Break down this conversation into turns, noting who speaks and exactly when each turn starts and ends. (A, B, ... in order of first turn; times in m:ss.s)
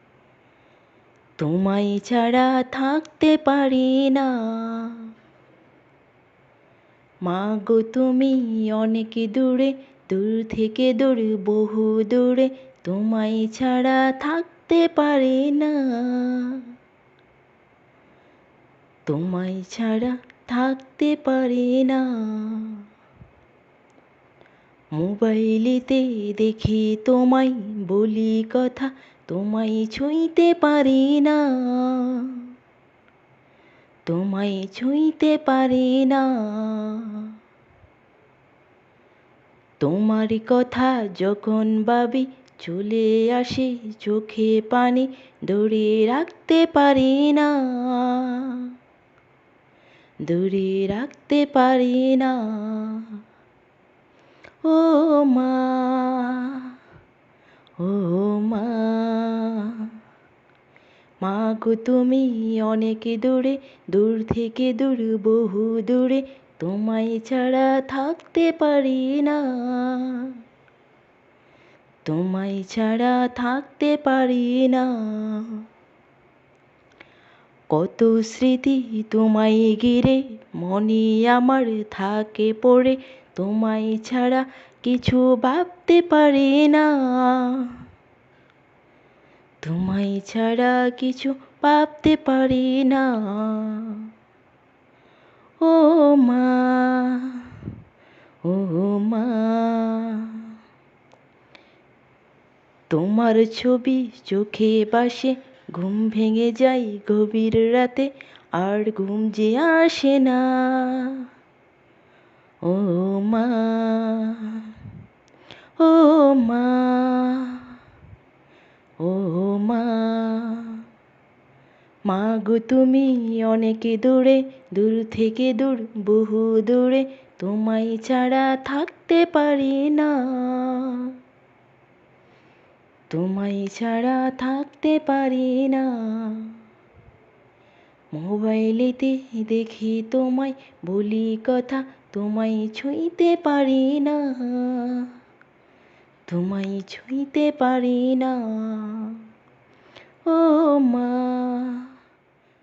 0:01.4-0:05.1 A
0:07.2-0:16.6 A
0:19.1-0:22.8 A
0:24.9-0:32.4 A
0:34.0-0:37.3 A
0:39.8-0:48.7 A
0:50.2-0:53.2 A
0:54.6-0:56.7 A
0:57.8-0:59.9 A
1:01.2-1:10.3 A
1:12.0-1:15.6 A
1:17.7-1:27.8 A
1:29.6-1:34.1 A
1:35.6-1:37.6 A
1:38.4-1:40.5 A
1:42.9-1:51.2 A
1:52.6-1:54.7 A
1:55.8-1:57.6 A
1:59.0-2:00.8 A
2:02.1-2:11.1 A
2:13.1-2:16.5 A
2:18.1-2:25.1 A
2:26.3-2:29.2 A
2:30.3-2:31.9 A